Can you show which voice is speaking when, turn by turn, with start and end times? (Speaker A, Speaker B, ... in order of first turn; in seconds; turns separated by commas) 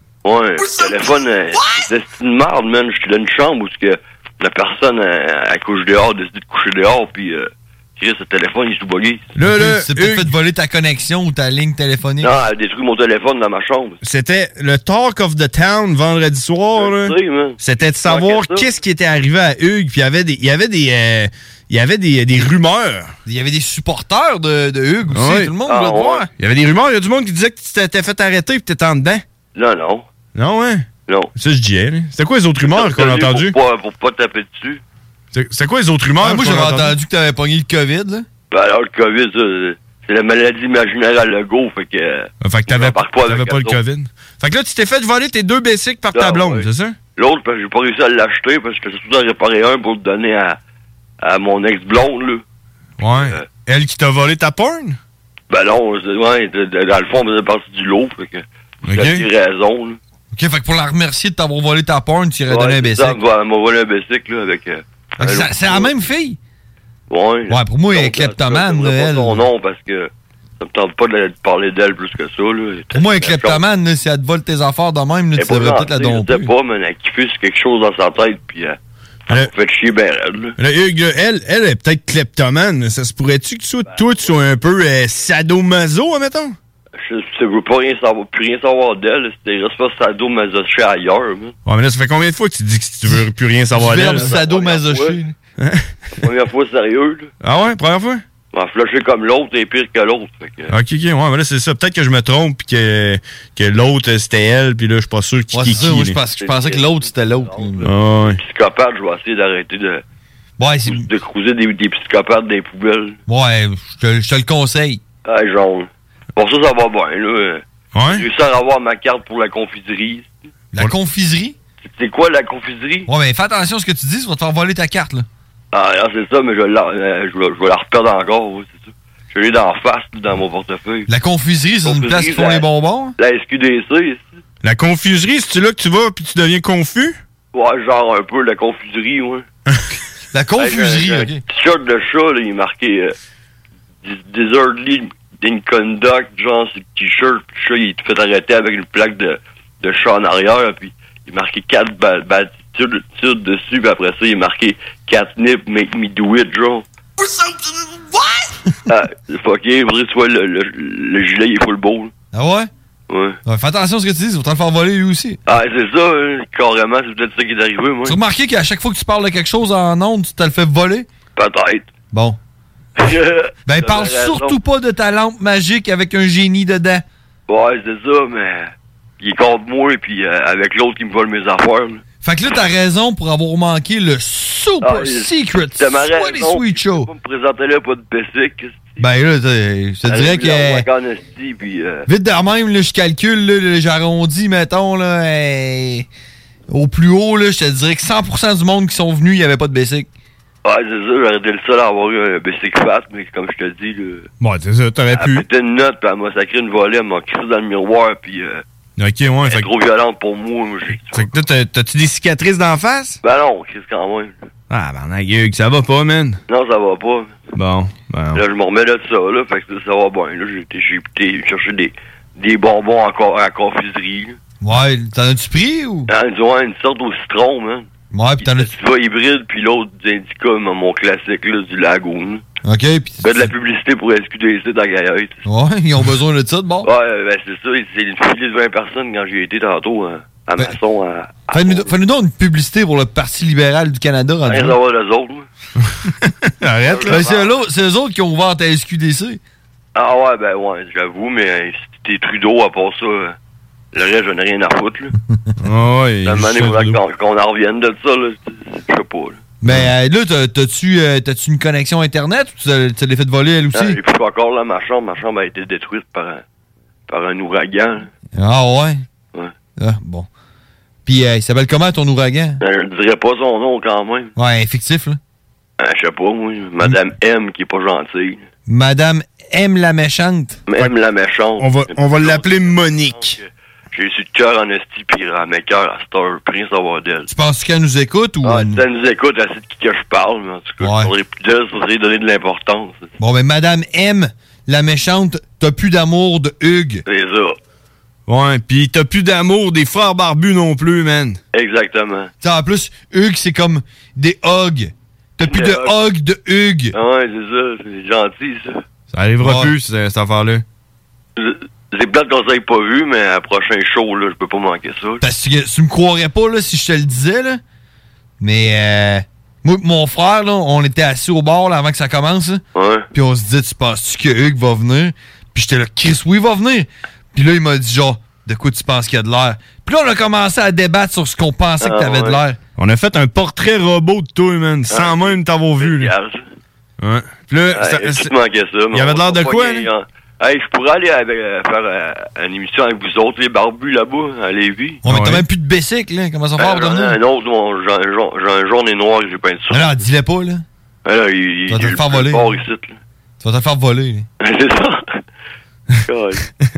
Speaker A: 0.2-9.3, Speaker B: 9.3-10.3, Speaker C: 9.4-12.4, Speaker A: 12.2-14.0, Speaker B: 14.0-23.1, Speaker A: 16.8-18.7, Speaker C: 23.2-26.3, Speaker B: 25.1-25.5, Speaker A: 25.7-26.2, Speaker B: 26.4-29.2, Speaker A: 29.5-30.1, Speaker B: 30.3-30.9, Speaker B: 31.4-33.5, Speaker A: 32.6-34.8, Speaker B: 35.3-36.9, Speaker C: 36.2-38.2, Speaker A: 38.5-43.8, Speaker B: 42.4-47.0, Speaker A: 46.1-50.6, Speaker A: 51.2-52.4, Speaker B: 53.0-55.0, Speaker A: 53.1-53.5, Speaker A: 55.5-60.0, Speaker B: 58.9-59.2, Speaker C: 60.3-63.2, Speaker A: 62.5-65.9, Speaker C: 65.2-66.4, Speaker A: 67.1-73.6, Speaker C: 67.5-69.5, Speaker C: 72.9-76.5, Speaker A: 75.3-80.5, Speaker B: 80.6-86.5, Speaker A: 83.8-84.5, Speaker A: 87.0-91.5, Speaker B: 91.7-94.4, Speaker C: 93.7-95.3, Speaker A: 94.2-95.2, Speaker B: 95.6-95.9, Speaker A: 96.2-97.3, Speaker B: 97.4-98.2, Speaker A: 98.5-100.7, Speaker B: 100.7-106.2, Speaker C: 105.5-107.9, Speaker A: 106.3-110.0, Speaker B: 107.8-108.4, Speaker C: 110.6-111.1, Speaker A: 110.8-113.2, Speaker C: 113.3-115.0, Speaker A: 115.2-120.3, Speaker B: 117.9-118.2, Speaker C: 120.7-121.5, Speaker A: 121.8-123.1, Speaker C: 123.1-125.3, Speaker A: 125.7-131.1, Speaker C: 131.1-133.1, Speaker A: 131.8-132.7, Speaker A: 133.2-134.2, Speaker B: 134.6-137.2, Speaker A: 137.5-139.4, Speaker C: 140.3-141.4, Speaker A: 140.6-143.1, Speaker A: 144.0-156.8, Speaker A: 158.9-162.1, Speaker C: 162.3-162.7, Speaker A: 163.1-163.4, Speaker C: 163.4-165.4, Speaker A: 165.5-168.2, Speaker C: 168.0-171.1, Speaker A: 171.3-171.9, Speaker C: 172.1-172.4, Speaker A: 173.0-174.6, Speaker C: 173.7-177.0, Speaker A: 177.5-182.0, Speaker C: 182.2-187.1, Speaker A: 184.8-189.1, Speaker C: 189.0-190.8, Speaker A: 190.0-192.1, Speaker C: 192.1-196.1, Speaker C: 196.7-200.1, Speaker A: 200.6-204.3, Speaker B: 204.4-205.4, Speaker A: 205.1-208.6, Speaker B: 209.0-209.7, Speaker A: 209.4-211.3, Speaker B: 211.1-213.2, Speaker A: 213.2-214.4, Speaker B: 214.7-216.4, Speaker A: 216.5-217.4, Speaker B: 217.6-218.4, Speaker A: 218.3-224.4, Speaker C: 224.6-226.1, Speaker A: 226.1-227.9, Speaker C: 228.1-228.7, Speaker A: 228.4-232.4, Speaker C: 232.6-233.5, Speaker A: 233.2-235.4, Speaker C: 235.4-236.9, Speaker A: 236.8-241.9, Speaker C: 241.5-244.8, Speaker A: 244.4-245.4, Speaker B: 246.6-247.2, Speaker A: 246.9-247.5, Speaker C: 247.1-249.4, Speaker A: 249.9-253.3, Speaker A: 253.9-255.1, Speaker B: 255.6-257.0, Speaker A: 256.2-259.4, Speaker C: 259.6-264.0, Speaker A: 263.7-266.4, Speaker A: 267.1-268.1, Speaker C: 268.3-269.0, Speaker C: 269.8-270.3, Speaker C: 271.1-272.6, Speaker A: 272.6-274.3, Speaker C: 274.4-275.2, Speaker A: 275.8-278.4, Speaker C: 278.7-280.6, Speaker A: 280.7-287.3, Speaker B: 281.6-283.4, Speaker C: 287.3-288.8, Speaker A: 288.4-293.1, Speaker C: 290.8-291.1, Speaker C: 293.2-297.0, Speaker A: 297.1-297.6, Speaker B: 298.3-301.4, Speaker A: 301.5-302.3, Speaker C: 302.4-306.9, Speaker A: 305.4-305.9, Speaker A: 306.9-308.8, Speaker B: 309.1-310.6, Speaker C: 309.4-309.7, Speaker A: 311.4-315.2, Speaker C: 315.2-317.6, Speaker C: 318.4-322.6, Speaker A: 322.7-323.1, Speaker C: 323.1-332.6, Speaker A: 331.8-332.4, Speaker B: 332.8-336.1, Speaker A: 334.9-336.4, Speaker B: 337.0-338.3, Speaker A: 337.7-345.0, Speaker B: 338.9-339.9, Speaker C: 345.0-347.2, Speaker B: 345.1-345.4, Speaker A: 346.6-350.0, Speaker C: 349.7-350.6, Speaker A: 351.1-353.0, Speaker C: 351.7-352.5, Speaker C: 353.4-354.2, Speaker A: 354.4-355.0, Speaker A: 356.0-356.5